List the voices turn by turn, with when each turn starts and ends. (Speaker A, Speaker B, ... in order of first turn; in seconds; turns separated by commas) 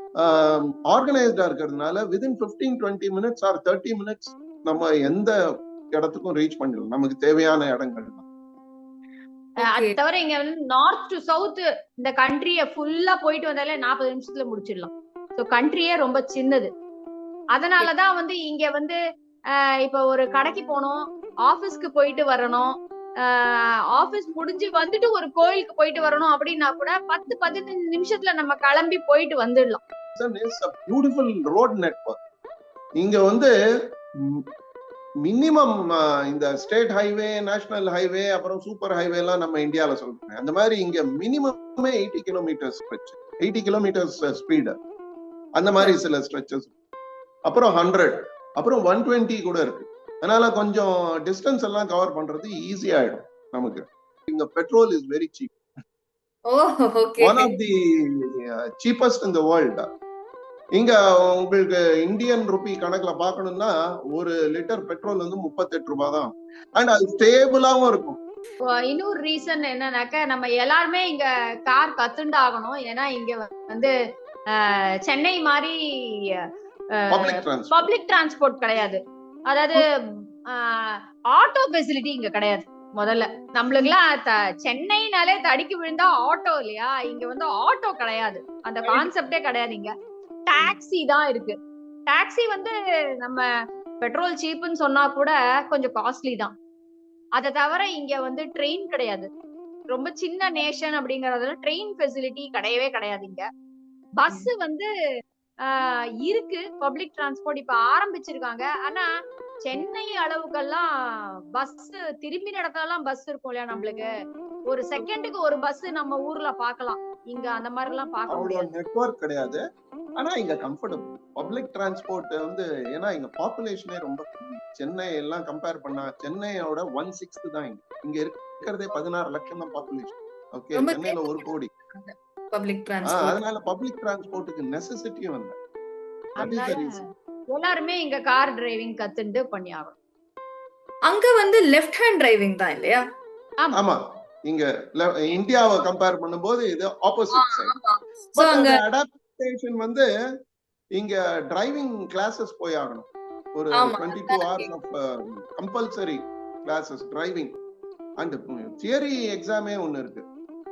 Speaker A: 0.2-5.3, Speaker A: 5.9-8.2, Speaker B: 9.6-16.7, Speaker C: 9.6-10.0, Speaker B: 17.6-19.0, Speaker B: 19.6-29.8, Speaker A: 30.2-32.2, Speaker A: 33.0-33.5, Speaker A: 34.2-34.5, Speaker A: 35.2-44.8, Speaker A: 45.6-46.7, Speaker A: 47.5-55.5, Speaker C: 56.5-57.5, Speaker A: 57.2-59.9, Speaker A: 60.8-68.2, Speaker B: 68.8-73.9, Speaker B: 74.5-76.4, Speaker B: 77.0-79.9, Speaker A: 77.1-77.9, Speaker B: 80.5-89.9, Speaker B: 90.5-91.6, Speaker B: 92.1-93.5, Speaker B: 94.0-96.5, Speaker B: 97.4-99.3, Speaker B: 99.9-103.5, Speaker B: 104.2-104.9, Speaker B: 105.6-109.1, Speaker B: 109.6-114.1, Speaker B: 114.7-118.7, Speaker A: 118.3-119.6, Speaker A: 120.2-131.7, Speaker C: 130.8-133.4, Speaker A: 133.1-135.6, Speaker B: 136.4-137.0, Speaker A: 136.4-137.0, Speaker B: 137.5-140.0, Speaker C: 141.1-143.0, Speaker A: 143.7-147.7, Speaker C: 147.3-148.8, Speaker A: 148.4-150.1, Speaker A: 150.9-157.6, Speaker C: 153.8-154.7, Speaker A: 158.2-160.3